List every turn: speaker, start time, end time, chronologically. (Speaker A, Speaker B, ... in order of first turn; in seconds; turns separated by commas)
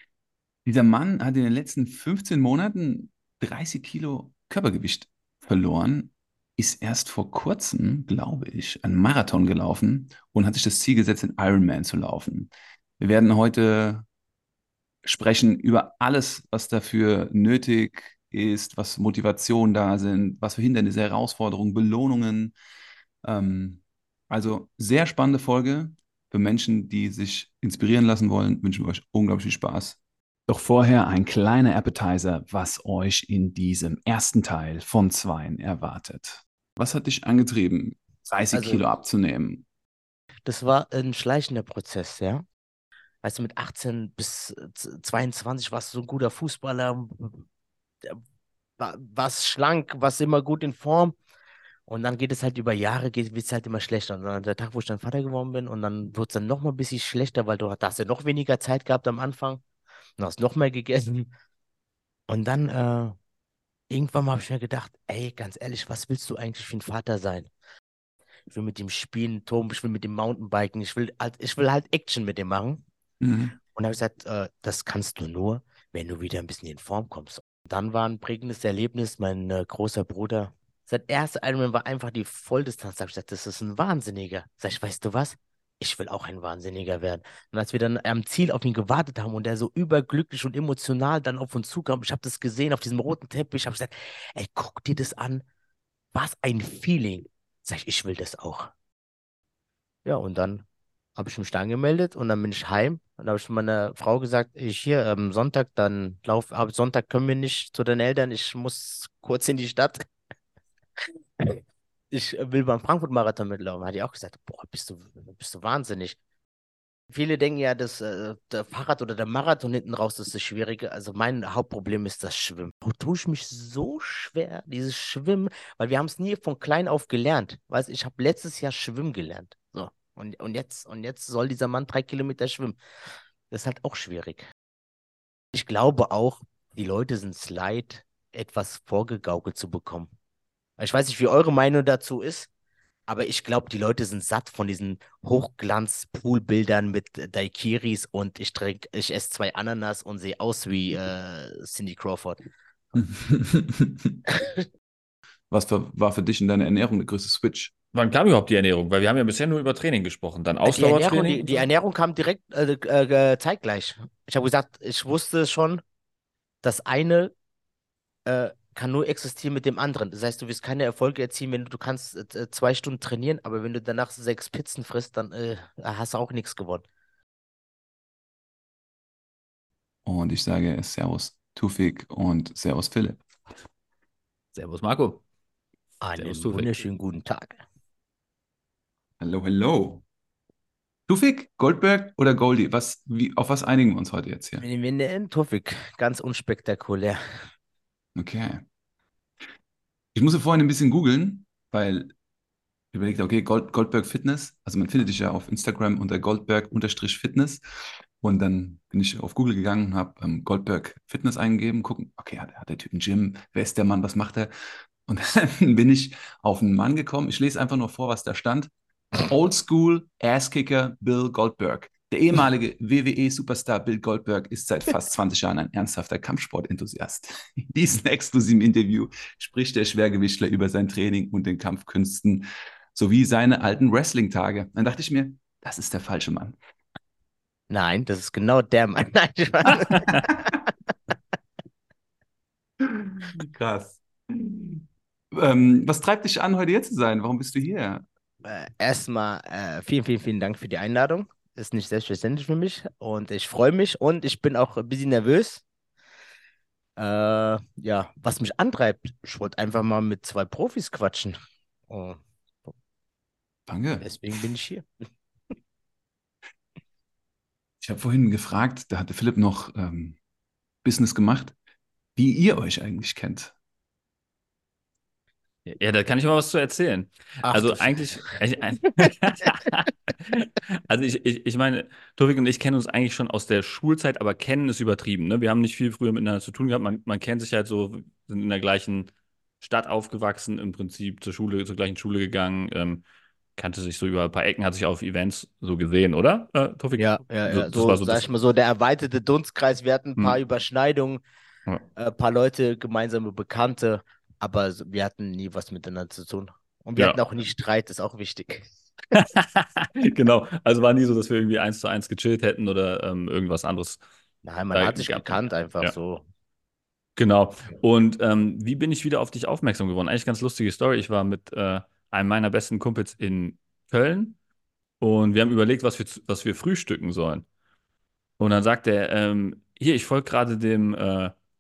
Speaker A: 0.6-14.1, Speaker A: 15.0-22.5, Speaker A: 23.2-39.6, Speaker B: 38.5-38.8, Speaker B: 40.5-42.4, Speaker B: 43.2-47.4, Speaker B: 48.8-51.1, Speaker B: 51.9-59.6, Speaker B: 60.2-61.3, Speaker B: 62.3-63.1, Speaker B: 63.9-67.5, Speaker B: 68.5-72.8, Speaker A: 73.2-73.5, Speaker B: 73.7-95.4, Speaker B: 96.1-98.7, Speaker B: 100.0-100.6, Speaker B: 101.2-110.0, Speaker B: 112.1-116.2, Speaker B: 117.1-132.8, Speaker B: 133.5-134.4, Speaker B: 135.5-140.1, Speaker B: 140.8-142.5, Speaker B: 143.1-152.4, Speaker A: 152.9-154.2, Speaker A: 155.5-157.7, Speaker C: 157.9-161.6, Speaker B: 160.6-165.8, Speaker B: 166.6-167.3, Speaker B: 168.3-176.8, Speaker A: 180.1-183.2, Speaker C: 184.5-185.2, Speaker B: 186.0-187.6, Speaker C: 186.2-186.8, Speaker A: 189.2-190.0, Speaker A: 191.1-194.6, Speaker B: 194.6-197.2, Speaker A: 198.1-198.6, Speaker A: 200.1-202.1, Speaker A: 202.9-207.6, Speaker A: 208.2-214.5, Speaker A: 215.1-218.7, Speaker A: 219.2-236.6, Speaker B: 237.7-240.3, Speaker A: 240.2-240.5, Speaker A: 242.8-248.1, Speaker B: 248.4-255.6, Speaker B: 257.0-261.4, Speaker B: 261.9-262.2, Speaker A: 263.7-264.1, Speaker B: 264.0-264.8, Speaker A: 267.8-270.2, Speaker A: 270.8-271.5, Speaker A: 272.1-273.5, Speaker C: 275.7-289.1, Speaker B: 277.4-277.9, Speaker C: 289.6-293.0, Speaker C: 293.6-298.2, Speaker B: 297.0-301.2, Speaker B: 301.9-308.7, Speaker C: 309.1-314.0, Speaker B: 314.4-316.2, Speaker C: 314.7-315.9, Speaker C: 317.2-324.4, Speaker C: 325.0-327.4, Speaker C: 328.4-331.3